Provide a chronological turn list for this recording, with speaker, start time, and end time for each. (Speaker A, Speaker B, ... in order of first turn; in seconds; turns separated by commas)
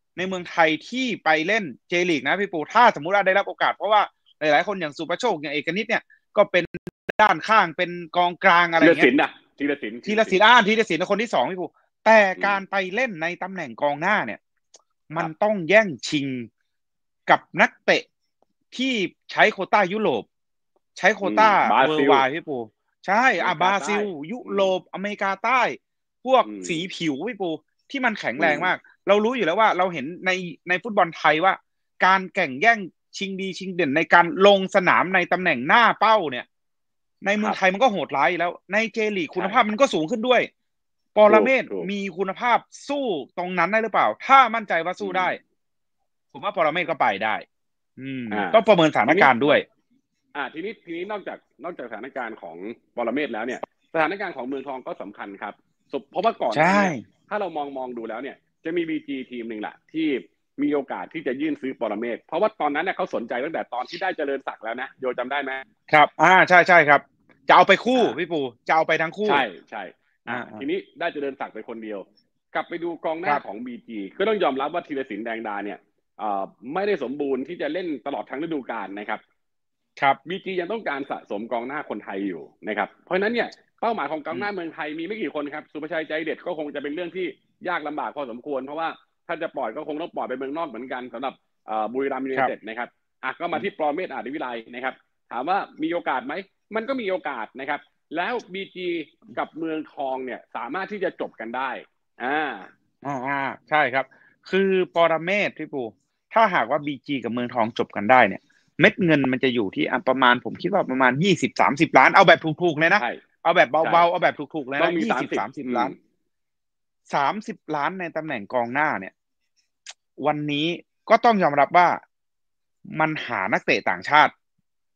Speaker A: 0.2-9.1, Speaker B: 8.8-10.4, Speaker A: 10.1-14.4, Speaker A: 15.1-16.5, Speaker A: 17.3-18.1, Speaker A: 18.7-20.3, Speaker A: 21.0-36.5, Speaker B: 21.2-22.2, Speaker B: 23.4-24.7, Speaker B: 26.4-26.8, Speaker B: 28.4-28.7, Speaker A: 37.2-40.5, Speaker B: 39.4-39.6, Speaker A: 41.1-45.4, Speaker B: 41.3-41.9, Speaker B: 45.0-45.4, Speaker A: 46.3-47.5, Speaker A: 48.0-49.6, Speaker B: 48.3-49.6, Speaker B: 50.4-65.6, Speaker A: 56.5-57.0, Speaker A: 65.9-69.5, Speaker B: 69.2-79.2, Speaker A: 70.3-70.7, Speaker B: 80.3-102.7, Speaker A: 103.0-115.9, Speaker B: 113.0-113.2, Speaker B: 113.8-114.1, Speaker B: 114.8-116.0, Speaker A: 117.1-119.1, Speaker A: 120.2-122.0, Speaker A: 122.9-124.3